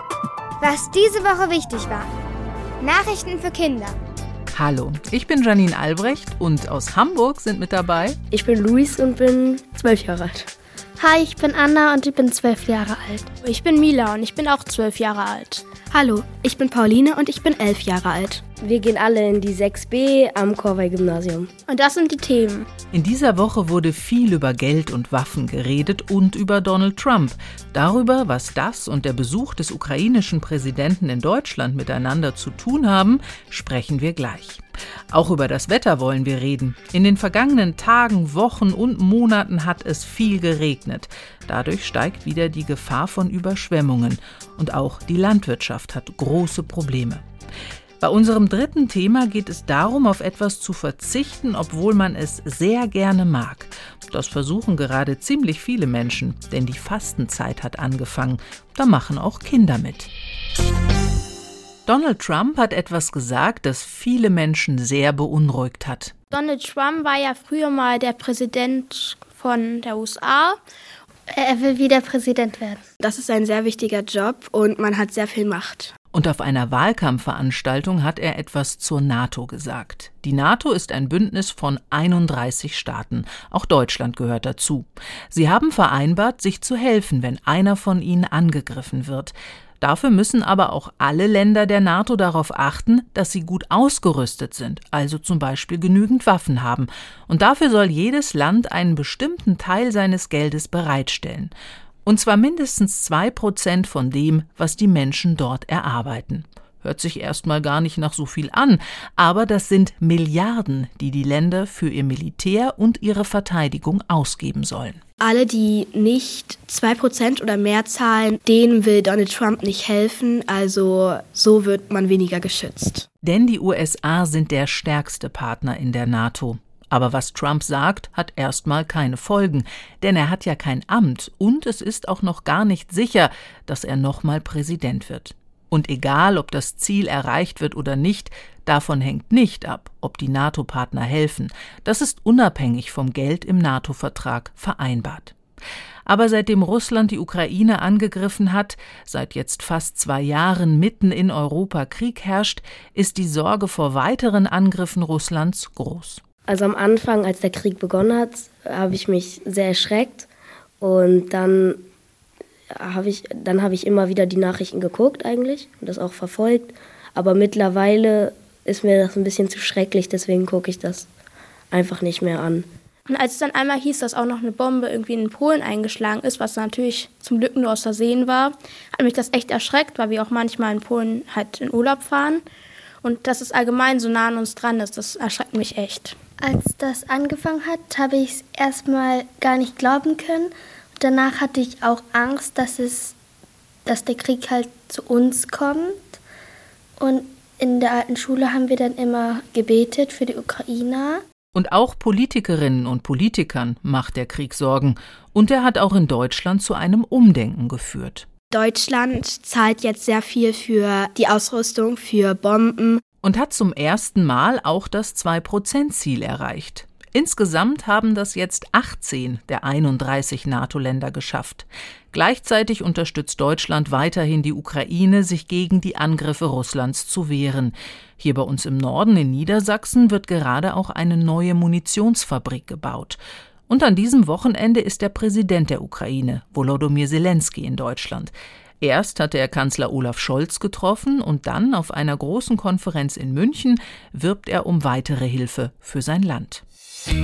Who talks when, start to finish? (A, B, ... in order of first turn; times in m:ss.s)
0:00.6-0:02.1 A
0:02.8-0:04.0 A
0:04.5-0:08.2 B
0:08.3-0:10.5 C
0:11.0-0:13.3 D
0:13.4-0:15.6 E
0:15.9-0:18.4 F
0:18.6-0:21.5 C
0:21.7-0:22.7 E
0:22.9-0:47.2 B
0:48.0-1:00.1 B
1:01.9-1:06.1 B
1:06.3-1:10.6 E
1:11.3-1:12.8 D
1:13.0-1:15.9 F
1:16.1-1:41.5 B
1:42.1-1:55.0 B
1:55.2-2:03.1 F
2:03.2-2:25.4 B
2:26.1-2:36.2 B
2:36.5-2:40.3 C
2:40.8-2:41.8 C
2:42.8-2:51.1 C
2:51.7-2:52.7 C
2:53.1-3:02.4 E
3:03.0-3:06.2 E
3:06.4-3:13.1 D
3:13.8-3:16.2 D
3:17.0-3:21.2 D
3:21.6-3:28.3 B
3:28.5-3:33.0 F
3:33.2-4:06.6 B